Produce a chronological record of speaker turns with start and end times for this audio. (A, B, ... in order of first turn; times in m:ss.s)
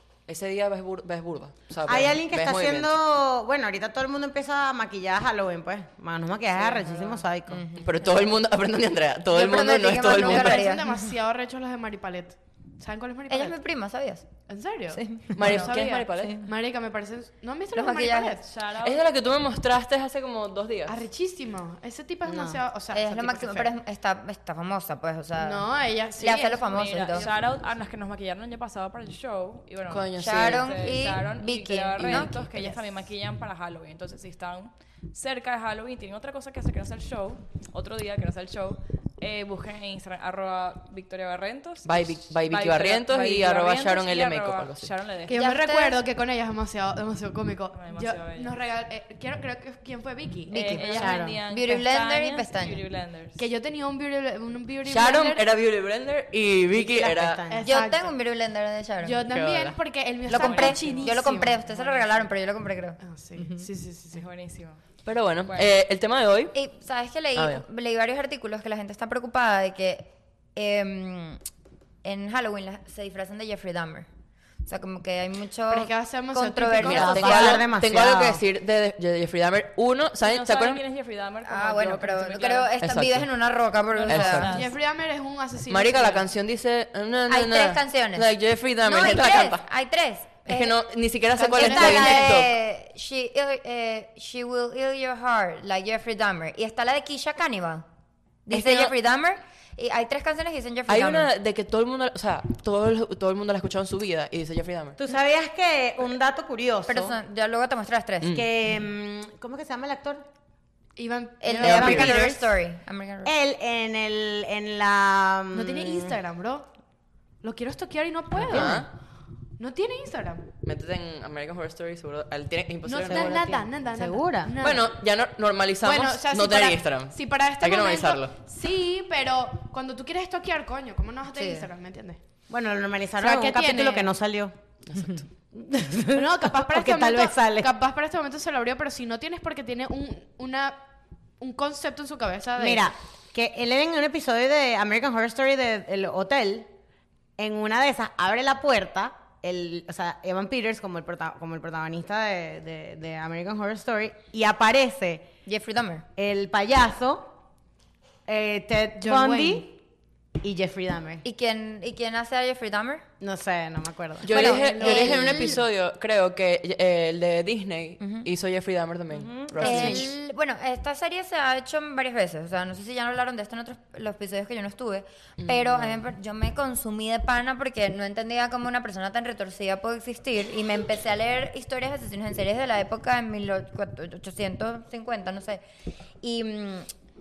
0:00.3-0:02.9 A
0:01.8-0:07.6 B
0:06.8-0:07.2 C
0:07.5-0:08.3 D
0:07.8-0:10.6 A
0:09.3-0:11.1 D
0:10.0-0:13.6 E
0:13.3-0:14.3 D
0:14.5-0:18.4 E
0:14.9-0:16.4 D
0:15.3-0:16.4 A
0:17.8-0:18.4 D
0:18.4-0:19.0 C
0:18.8-0:21.1 A
0:20.9-0:23.7 E
0:22.2-0:22.6 B
0:22.9-0:25.6 D
0:25.4-0:27.3 E
0:26.2-0:27.3 D
0:26.6-0:45.4 C
0:29.9-0:30.9 A
0:30.2-0:32.8 D
0:32.1-0:32.6 E
0:41.8-0:44.9 A
0:45.3-0:51.1 E
0:45.3-0:46.0 D
0:47.7-0:48.5 C
0:50.5-0:52.8 D
0:50.5-0:53.4 C
0:50.9-0:51.4 B
0:53.4-0:55.4 E
0:54.8-0:57.4 A
0:56.7-0:57.8 B
0:57.5-0:58.1 E
0:57.6-0:59.2 D
0:59.0-1:01.8 E
0:59.3-0:59.7 B
0:59.4-0:59.8 A
1:00.3-1:03.6 D
1:00.3-1:02.0 C
1:03.0-1:04.2 E
1:04.1-1:04.8 C
1:05.0-1:06.5 A
1:05.4-1:05.8 C
1:06.5-1:11.4 D
1:07.4-1:07.6 A
1:12.0-1:14.1 D
1:14.6-1:17.6 D
1:15.7-1:17.4 E
1:16.8-1:18.4 B
1:17.0-1:20.8 A
1:20.2-1:22.7 C
1:21.4-1:24.5 D
1:22.8-1:23.3 A
1:23.9-1:24.7 C
1:24.0-1:24.6 A
1:24.5-1:26.2 E
1:25.7-1:29.6 A
1:27.3-1:28.3 D
1:28.8-1:30.8 D
1:30.4-1:32.5 A
1:31.4-1:37.8 D
1:31.4-1:32.4 E
1:38.4-1:41.3 D
1:38.5-1:38.9 B
1:40.9-1:45.0 A
1:45.0-1:47.2 B
1:46.9-1:48.4 D
1:48.2-1:50.2 B
1:51.0-1:52.3 E
1:51.4-1:53.3 D
1:51.5-1:52.3 B
1:51.6-1:52.3 A
1:53.2-1:56.2 B
1:55.5-1:56.7 E
1:57.4-1:58.8 E
1:58.4-1:58.9 A
1:58.5-1:58.9 B
1:59.6-2:00.5 E
2:00.6-2:03.5 A
2:02.8-2:05.0 E
2:02.9-2:04.5 B
2:04.6-2:08.3 A
2:05.8-2:12.2 E
2:11.3-2:11.7 D
2:12.5-2:14.5 B
2:13.2-2:14.1 E
2:14.9-2:15.2 A
2:15.5-2:17.7 B
2:16.2-2:20.8 E
2:21.4-2:22.9 E
2:22.6-2:26.7 B
2:27.4-2:35.3 B
2:35.4-2:36.0 D
2:36.2-2:37.3 B
2:38.2-2:39.7 B
2:39.0-2:39.6 E
2:40.4-2:41.2 B
2:41.2-2:43.0 D
2:43.2-2:44.5 B
2:44.2-2:50.1 A
2:44.3-2:45.6 D
2:44.5-2:45.3 E
2:48.0-2:48.3 D
2:49.1-2:50.1 B
2:49.6-3:05.6 D
2:55.4-2:56.0 A
3:06.2-3:06.9 D